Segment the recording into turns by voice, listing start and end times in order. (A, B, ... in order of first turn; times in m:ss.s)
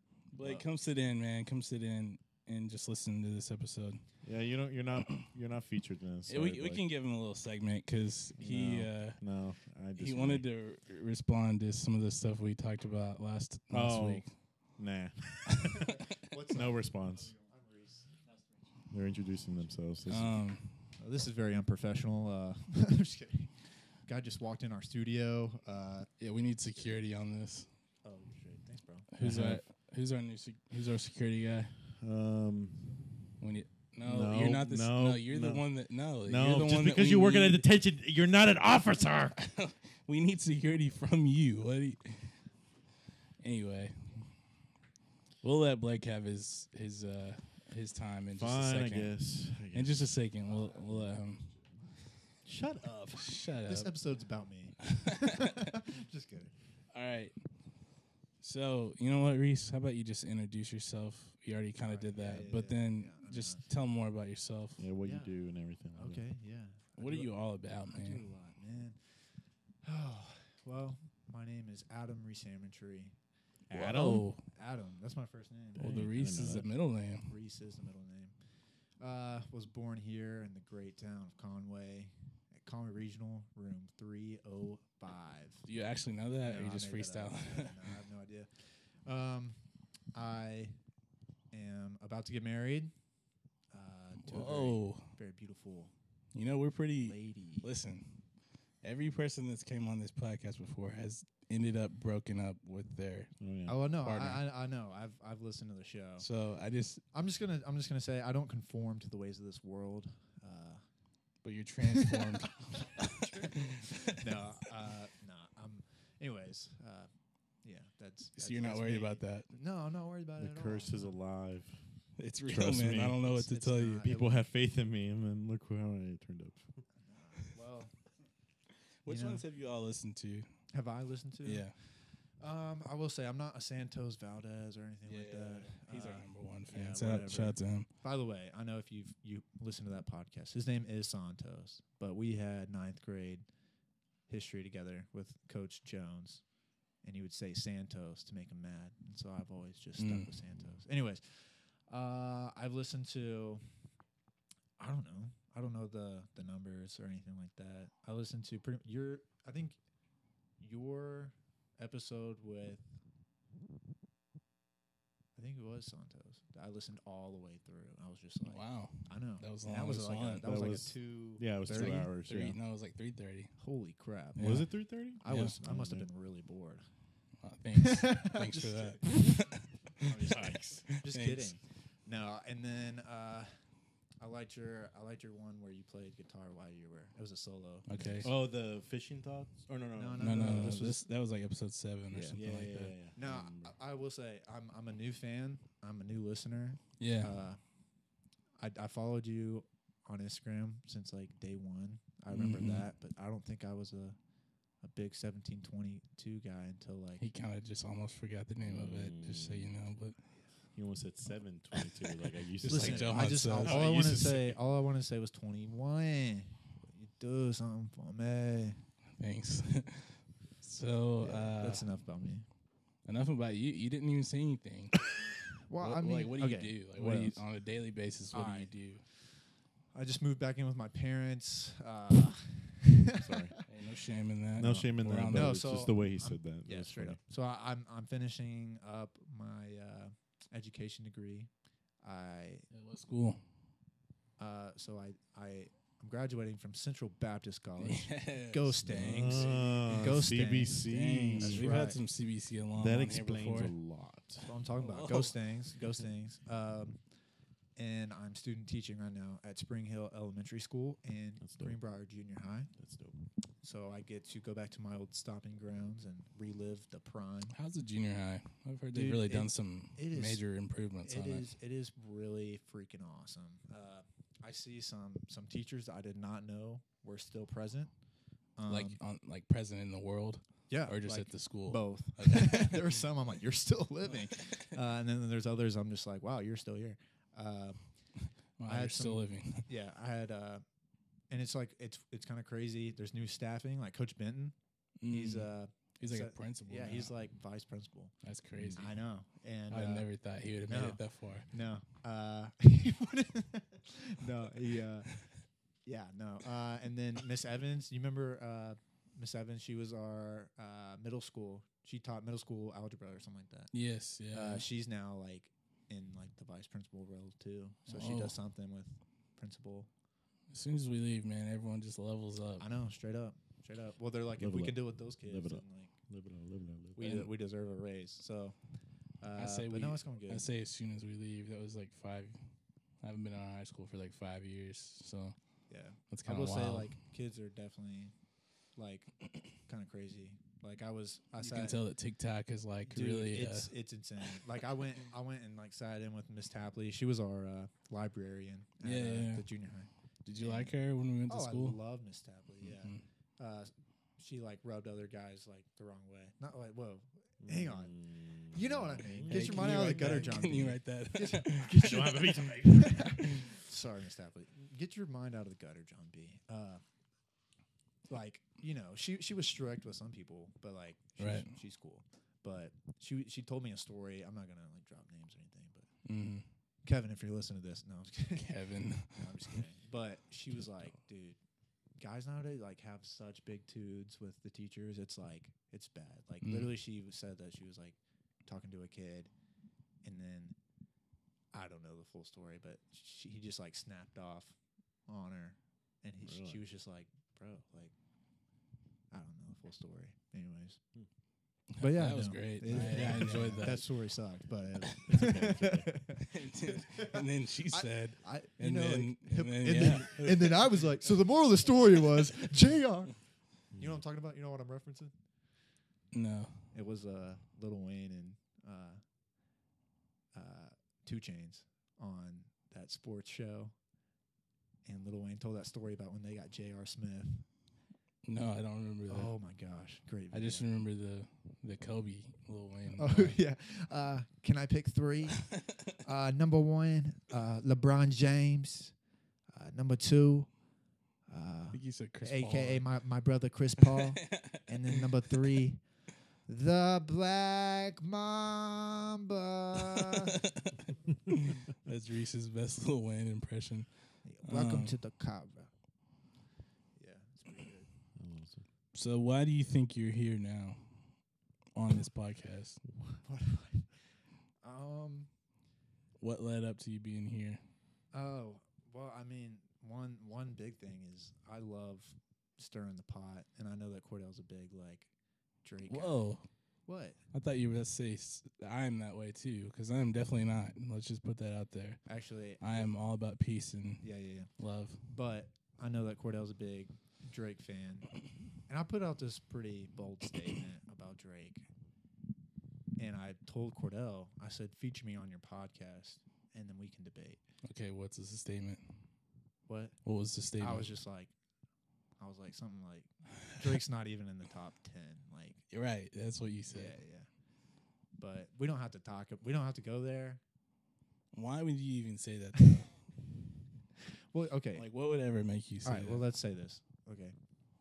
0:00.3-0:04.0 A
0:00.4-0:00.6 B
0:04.2-0:06.8 B
0:06.3-0:09.2 A
0:08.4-0:10.4 B
0:10.0-0:14.3 A
0:13.7-0:17.4 B
0:16.2-0:16.8 C
0:17.4-0:18.0 C
0:18.9-0:20.4 B
0:20.1-0:20.9 A
0:21.0-0:26.1 C
0:26.2-0:27.7 A
0:26.7-0:27.0 C
0:28.0-0:29.1 C
0:29.1-0:31.8 A
0:29.2-0:29.6 B
0:31.9-0:33.1 B
0:33.4-0:37.7 A
0:34.0-0:39.4 B
0:39.4-0:42.4 A
0:43.4-0:44.2 A
0:45.4-0:49.2 A
0:48.4-0:50.2 B
0:49.7-0:51.5 A
0:52.4-0:53.2 B
0:53.2-0:53.9 A
0:53.6-0:56.5 C
0:54.8-0:55.6 A
0:56.9-0:57.4 A
0:58.4-1:04.8 A
1:01.8-1:03.6 C
1:04.8-1:06.2 B
1:05.0-1:05.3 C
1:05.9-1:07.3 C
1:07.0-1:08.2 A
1:07.9-1:09.0 C
1:09.8-1:13.1 C
1:13.7-1:14.4 A
1:13.7-1:14.2 B
1:13.7-1:15.9 C
1:15.8-1:16.7 B
1:15.8-1:17.4 A
1:17.3-1:18.4 C
1:19.0-1:25.6 C
1:25.6-1:27.9 A
1:26.4-1:29.6 C
1:30.1-1:30.8 C
1:31.5-1:32.9 C
1:33.7-1:35.9 C
1:34.2-1:35.1 A
1:36.3-1:38.2 A
1:37.0-1:37.7 C
1:38.8-1:43.3 A
1:43.4-1:43.8 B
1:43.7-1:46.2 C
1:44.0-1:44.4 A
1:46.2-1:47.0 A
1:47.1-1:50.8 C
1:51.4-1:53.9 A
1:52.0-1:52.3 C
1:53.0-1:57.1 C
1:57.6-2:01.2 C
1:58.4-1:59.5 A
2:00.4-2:01.8 B
2:02.2-2:04.1 A
2:02.4-2:03.4 B
2:03.2-2:04.3 C
2:04.0-2:06.8 B
2:07.0-2:07.9 C
2:09.0-2:10.5 A
2:09.0-2:09.4 C
2:10.7-2:11.7 C
2:11.4-2:11.7 A
2:12.4-2:23.4 C
2:15.0-2:17.9 A
2:24.3-2:26.4 C
2:27.0-2:33.6 C
2:30.0-2:30.3 A
2:34.8-2:39.8 C
2:40.6-2:42.8 C
2:45.4-2:52.1 C
2:48.4-2:50.5 A
2:50.4-2:52.6 B
2:51.7-2:53.5 A
2:53.6-2:54.5 C
2:54.3-2:54.7 A
2:54.4-2:56.1 B
2:55.2-2:56.8 C
2:55.2-2:55.6 A
2:57.4-3:01.6 A
2:57.7-2:59.4 C
3:00.0-3:00.8 B
3:00.0-3:03.5 C
3:04.2-3:08.3 C
3:07.9-3:08.3 A
3:08.2-3:10.9 B
3:09.9-3:11.0 C
3:10.2-3:12.9 A
3:12.1-3:12.4 C
3:12.4-3:13.7 B
3:13.1-3:17.6 C
3:17.0-3:17.3 A
3:18.6-3:24.2 C
3:22.3-3:22.9 A
3:24.8-3:27.2 C
3:27.2-3:30.2 A
3:28.6-3:29.7 B
3:30.7-3:34.6 B
3:32.6-3:38.8 C
3:32.6-3:33.8 A
3:39.2-3:41.9 A
3:41.2-3:42.4 C
3:43.0-3:45.1 A
3:45.6-3:47.1 C
3:45.8-3:49.0 A
3:47.0-3:47.4 B
3:48.3-3:48.7 C
3:49.9-3:53.4 C
3:53.1-3:53.6 B
3:53.7-3:55.6 A
3:54.6-3:57.2 B
3:55.3-4:01.5 C
4:02.0-4:02.6 C
4:02.7-4:03.4 A
4:04.4-4:10.8 C
4:07.8-4:10.2 A
4:08.9-4:12.0 B
4:10.8-4:13.7 A
4:11.4-4:12.0 C
4:12.7-4:14.4 B
4:14.4-4:17.0 C
4:14.8-4:15.4 A
4:17.8-4:22.7 C
4:21.4-4:21.8 B
4:22.8-4:23.2 B
4:23.6-4:27.5 C
4:27.5-4:31.5 A
4:28.9-4:30.4 C
4:31.0-4:37.9 C
4:38.6-4:39.0 C
4:38.6-4:42.8 A
4:40.7-4:47.8 C
4:48.6-4:49.7 A
4:48.6-4:50.6 C
4:51.3-4:54.5 C
4:55.0-4:57.1 A
4:55.1-4:58.1 C
4:58.2-4:58.9 A
4:58.6-4:58.8 B
4:58.8-5:00.1 C
4:59.7-5:01.5 A
5:00.7-5:05.2 C
5:05.8-5:13.7 C
5:13.7-5:14.6 A
5:14.3-5:19.9 C
5:17.9-5:18.3 A
5:20.5-5:22.7 A
5:22.6-5:25.9 C
5:24.4-5:27.0 B
5:27.0-5:28.6 C
5:27.0-5:27.3 A
5:29.2-5:30.5 C
5:29.4-5:32.4 A
5:33.0-5:35.4 A
5:35.7-5:38.1 C
5:36.1-5:36.9 A
5:38.7-5:41.8 C
5:41.4-5:43.7 A
5:42.8-5:50.7 C
5:48.8-5:49.4 A
5:50.2-5:51.8 A
5:51.3-5:57.9 C
5:52.6-5:53.0 A
5:57.4-6:00.1 B
5:58.5-6:06.8 C
5:59.2-6:03.6 A
6:01.7-6:03.0 B
6:08.1-6:15.9 C
6:11.2-6:11.5 A
6:16.0-6:16.5 A
6:16.8-6:18.5 C
6:18.3-6:19.6 A
6:19.1-6:21.4 C
6:22.0-6:29.3 C
6:26.4-6:26.7 A
6:30.0-6:30.6 C
6:31.5-6:34.6 C
6:35.1-6:37.9 C
6:36.2-6:36.6 B
6:39.1-6:40.8 C
6:41.8-6:43.9 A
6:41.8-6:53.2 C
6:44.5-6:46.0 B
6:44.9-6:45.2 A
6:46.2-6:50.9 A
6:53.7-6:54.0 B
6:53.7-6:55.1 C
6:56.1-6:56.7 A
6:56.7-6:59.0 C
7:00.3-7:03.7 C
7:04.8-7:07.4 C
7:08.2-7:09.3 A
7:09.1-7:10.7 C
7:10.3-7:13.4 A
7:12.9-7:18.9 C
7:19.5-7:20.5 C
7:21.3-7:25.8 C
7:21.7-7:22.8 A
7:23.8-7:25.0 A
7:26.5-7:30.4 C
7:30.0-7:33.9 A
7:34.2-7:35.7 C
7:34.4-7:35.0 A
7:37.0-7:37.9 C
7:38.2-7:38.6 B
7:38.9-7:41.1 A
7:41.7-7:42.8 A
7:43.2-7:43.9 C
7:44.6-7:45.3 C
7:46.2-7:47.6 A
7:48.1-7:55.1 C
7:55.6-7:56.2 C
7:55.9-7:56.5 A
7:56.8-7:57.2 C
7:57.3-8:02.0 A
8:02.0-8:02.9 C
8:02.6-8:05.0 A
8:04.0-8:04.5 C
8:05.1-8:08.1 C
8:08.7-8:11.7 C
8:13.0-8:17.4 C
8:17.6-8:19.0 A
8:19.7-8:20.0 C
8:20.0-8:21.0 A
8:20.6-8:21.3 C
8:22.2-8:25.6 C
8:25.7-8:27.0 A
8:26.7-8:27.3 C
8:28.2-8:30.4 C
8:31.3-8:33.0 A
8:34.3-8:34.8 C
8:34.7-8:36.2 A
8:35.8-8:37.3 C